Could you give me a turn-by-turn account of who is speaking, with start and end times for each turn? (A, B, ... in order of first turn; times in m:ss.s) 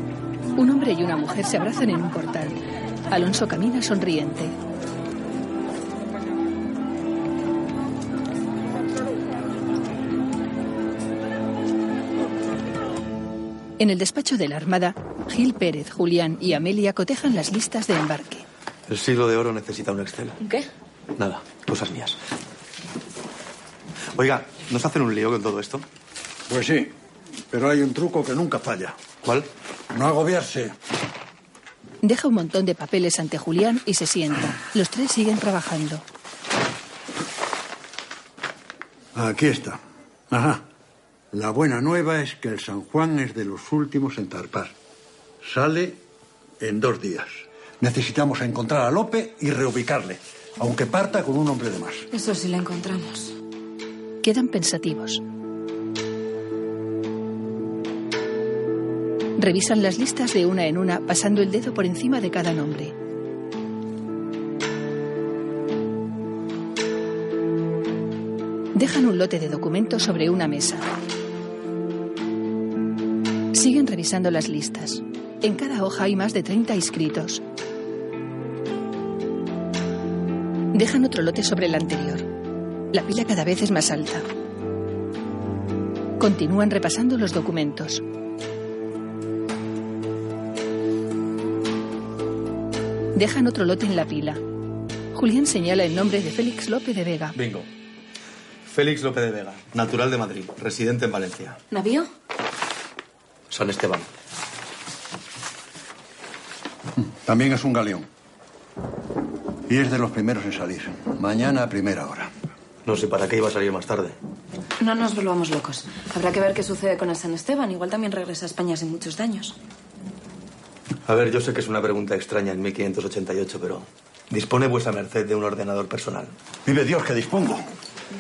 0:00.6-0:04.6 A
0:13.8-0:18.4 A
0:18.9-0:20.4 B
0:20.4-0:20.7 C
0:21.2-0:22.2 B
0:24.2-0:25.8 B
0:26.5-0:26.9 D
0:27.5-0:29.0 D
0:29.9-0:30.8 D
0:32.0-0:36.0 A
0:39.1-0:39.8 D
0:40.3-0:40.6 D
0:41.3-0:44.7 D
0:45.4-0:46.0 D
0:46.6-0:52.1 D
0:52.1-0:53.3 C
0:54.2-0:55.2 A
0:59.4-1:03.0 A
1:08.7-1:10.9 A
1:13.5-1:17.4 A
1:20.7-1:22.3 A
1:22.9-1:24.3 A
1:26.2-1:28.0 A
1:33.2-1:34.4 A
1:35.1-1:37.4 A
1:37.3-1:37.7 B
1:38.7-1:41.6 B
1:41.7-1:42.1 C
1:43.5-1:44.1 B
1:47.0-1:48.1 D
1:49.7-1:52.3 D
1:52.8-1:54.2 B
1:54.8-1:59.6 C
2:01.0-2:06.3 B
2:06.6-2:07.6 D